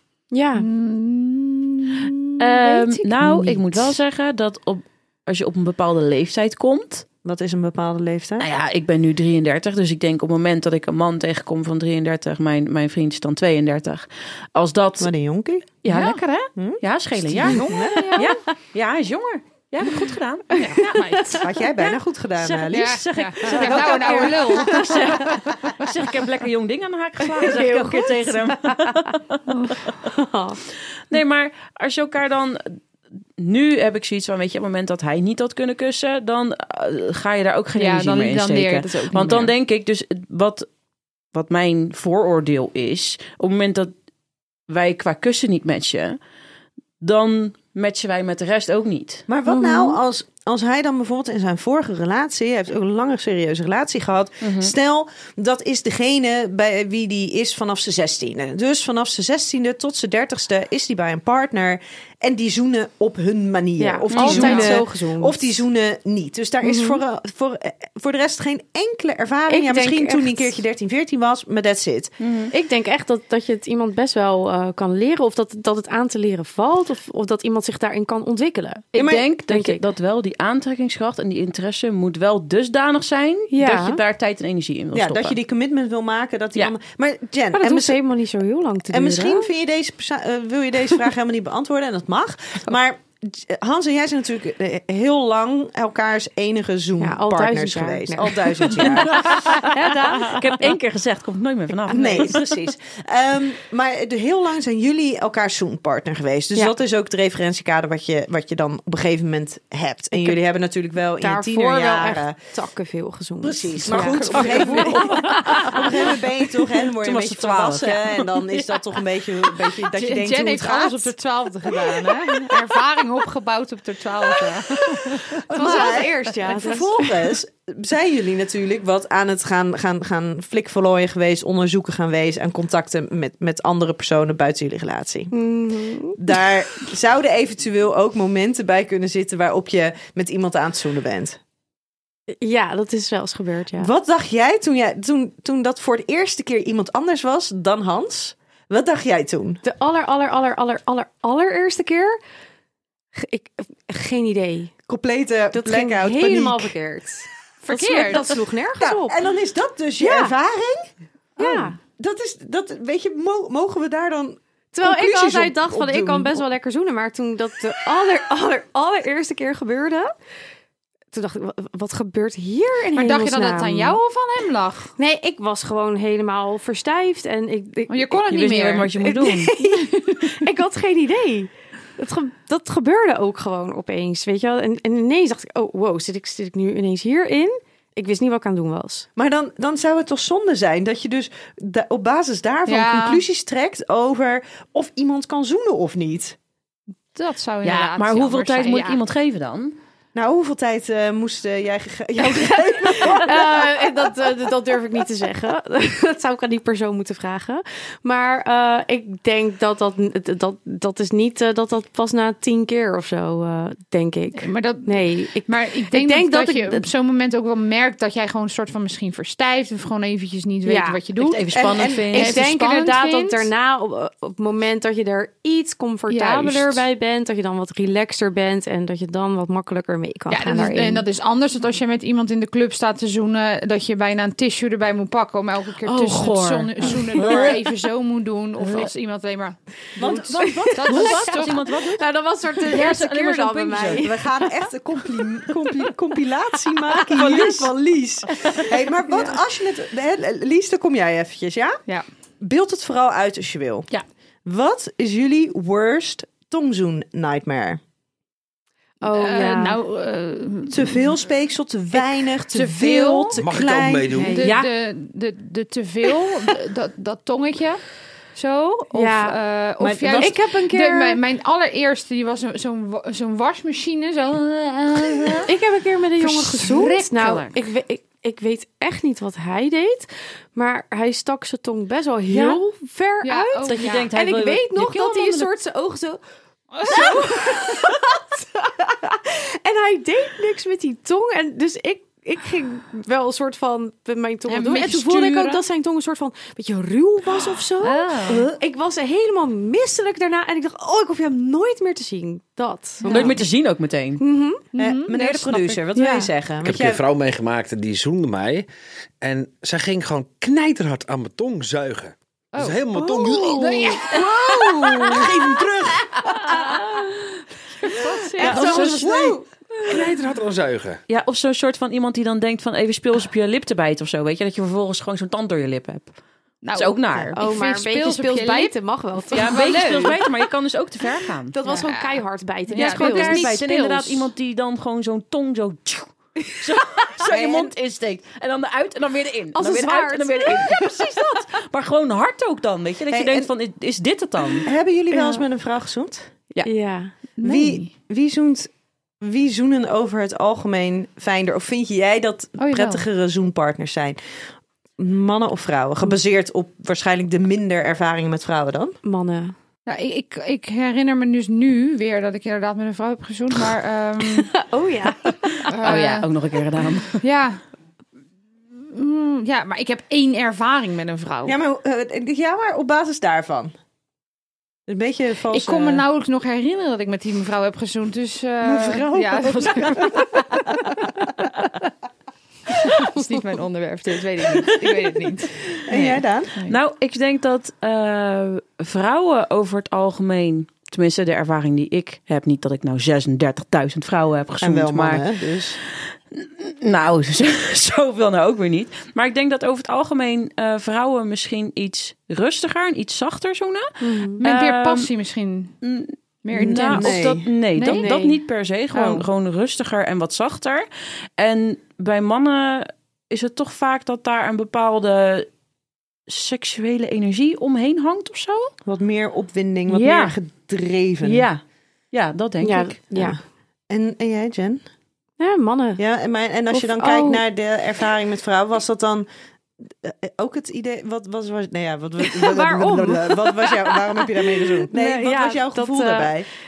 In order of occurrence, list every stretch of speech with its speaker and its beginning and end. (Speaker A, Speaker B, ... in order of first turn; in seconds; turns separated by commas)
Speaker A: 0.3-0.7, Speaker B: 0.6-2.1, Speaker C: 2.4-7.0, Speaker A: 2.4-3.0, Speaker D: 7.2-8.5, Speaker C: 8.4-15.1, Speaker D: 15.0-15.7, Speaker C: 15.8-17.6, Speaker B: 15.9-16.2, Speaker D: 16.6-18.1, Speaker B: 17.5-18.3, Speaker C: 18.1-21.3, Speaker B: 20.5-21.4, Speaker A: 20.6-21.4, Speaker D: 21.4-24.6, Speaker C: 22.4-29.9, Speaker B: 22.7-25.1, Speaker A: 24.6-25.3, Speaker A: 27.4-29.1, Speaker A: 30.0-30.6, Speaker C: 31.1-32.8, Speaker C: 33.4-40.6, Speaker B: 37.8-39.5, Speaker C: 41.3-43.9, Speaker C: 44.7-46.2, Speaker C: 47.0-49.2, Speaker D: 49.3-72.1, Speaker A: 49.5-50.0, Speaker C: 54.4-54.7, Speaker A: 63.8-65.4, Speaker C: 64.1-64.8, Speaker A: 66.6-67.0, Speaker A: 69.5-70.5, Speaker C: 72.2-72.5, Speaker A: 72.5-79.8, Speaker D: 78.9-79.3, Speaker C: 78.9-85.3, Speaker A: 83.5-84.0, Speaker D: 84.9-88.0, Speaker A: 87.5-89.5, Speaker D: 88.9-99.5, Speaker A: 97.0-100.8, Speaker C: 98.8-102.5, Speaker A: 101.9-102.3, Speaker D: 101.9-112.4, Speaker A: 111.2-115.8, Speaker D: 113.4-121.1, Speaker C: 113.9-115.9, Speaker B: 114.3-115.1, Speaker C: 117.0-118.2, Speaker B: 119.9-125.4, Speaker D: 125.4-135.3, Speaker A: 125.5-127.2, Speaker A: 135.3-136.2, Speaker D: 136.2-141.4, Speaker A: 142.3-143.9, Speaker D: 143.8-149.6, Speaker A: 149.6-152.2, Speaker A: 153.1-154.7, Speaker D: 154.9-156.7, Speaker A: 155.5-159.2, Speaker B: 157.7-158.3, Speaker D: 158.8-166.4, Speaker A: 160.0-160.3, Speaker A: 161.4-161.8, Speaker A: 164.7-170.1, Speaker A: 171.1-174.0, Speaker B: 172.9-174.9, Speaker A: 175.0-178.2, Speaker B: 177.9-178.9, Speaker C: 178.3-179.6, Speaker A: 179.0-189.1, Speaker B: 179.7-180.3, Speaker D: 189.2-196.4, Speaker B: 192.7-193.2, Speaker B: 197.1-199.0, Speaker C: 197.6-199.8, Speaker D: 200.1-204.1, Speaker A: 202.2-216.9, Speaker B: 214.4-221.4, Speaker A: 220.6-221.0, Speaker C: 221.2-222.5, Speaker D: 221.5-222.1, Speaker A: 222.1-231.0, Speaker B: 222.1-223.5, Speaker B: 226.1-226.8, Speaker B: 230.3-239.6, Speaker C: 235.8-237.6, Speaker D: 237.2-237.6, Speaker C: 238.6-238.9, Speaker D: 240.0-241.2, Speaker A: 240.1-241.3, Speaker C: 240.4-244.1, Speaker B: 240.7-241.6, Speaker A: 241.9-244.3, Speaker D: 243.9-251.8, Speaker C: 247.1-247.7, Speaker A: 247.2-247.6, Speaker D: 252.4-253.9, Speaker D: 254.4-257.8, Speaker A: 259.0-259.8, Speaker B: 259.0-261.0, Speaker D: 260.7-264.3, Speaker B: 262.0-263.4, Speaker E: 263.4-264.5, Speaker A: 264.2-264.5, Speaker B: 264.3-267.8, Speaker C: 264.4-264.7, Speaker B: 268.3-275.5, Speaker A: 268.9-269.4, Speaker D: 269.8-270.7, Speaker A: 270.2-271.2, Speaker A: 275.5-286.2, Speaker B: 276.2-277.6, Speaker C: 282.3-282.6, Speaker B: 283.2-284.0, Speaker C: 283.6-285.5, Speaker B: 286.7-287.8, Speaker A: 286.8-303.4, Speaker B: 294.5-295.6, Speaker B: 297.8-298.5, Speaker B: 303.0-303.4, Speaker C: 303.1-304.2, Speaker A: 304.2-304.6, Speaker B: 304.7-305.8, Speaker D: 304.8-307.0, Speaker A: 305.9-306.3, Speaker E: 306.6-308.7, Speaker E: 309.2-316.4, Speaker B: 312.5-312.8, Speaker A: 312.9-315.6, Speaker B: 313.6-314.3, Speaker A: 316.2-317.2, Speaker A: 317.8-319.4, Speaker B: 317.8-319.0, Speaker E: 318.4-321.0, Speaker D: 318.4-319.3, Speaker C: 321.1-326.1, Speaker B: 326.6-328.8, Speaker C: 326.8-327.4, Speaker A: 327.3-330.0, Speaker B: 329.3-330.2, Speaker C: 329.3-331.6, Speaker A: 331.5-334.3, Speaker B: 331.6-333.4, Speaker C: 332.7-344.7, Speaker D: 337.2-337.7, Speaker A: 339.5-341.4, Speaker D: 343.1-343.5, Speaker D: 344.6-346.3, Speaker A: 345.1-345.4, Speaker A: 346.6-347.1, Speaker B: 347.4-347.9, Speaker D: 347.4-354.2, Speaker B: 352.6-353.0, Speaker D: 355.0-359.0, Speaker A: 359.0-359.5, Speaker B: 359.9-364.5, Speaker A: 364.4-365.7, Speaker B: 365.7-366.2, Speaker C: 365.8-367.2, Speaker B: 367.2-367.6, Speaker B: 368.8-371.6, Speaker D: 371.4-373.7, Speaker D: 374.9-376.0, Speaker B: 375.5-380.4, Speaker D: 378.6-381.1, Speaker B: 382.7-386.8, Speaker D: 385.8-386.5, Speaker C: 386.7-395.2, Speaker D: 394.6-395.8, Speaker C: 396.3-405.1, Speaker A: 404.0-404.4, Speaker B: 404.4-405.8, Speaker C: 405.8-410.9, Speaker B: 406.4-407.2, Speaker A: 406.7-407.0, Speaker D: 406.8-407.5, Speaker B: 407.7-408.1, Speaker A: 407.9-408.4, Speaker B: 408.9-409.2, Speaker C: 411.4-415.5, Speaker C: 416.3-418.7, Speaker D: 418.8-421.4, Speaker C: 419.9-420.4, Speaker C: 421.2-421.6, Speaker C: 422.1-423.0, Speaker A: 422.6-423.4, Speaker D: 423.1-424.8, Speaker A: 425.4-426.0, Speaker D: 426.0-429.3, Speaker A: 426.7-427.4, Speaker D: 429.9-436.5, Speaker A: 432.2-436.3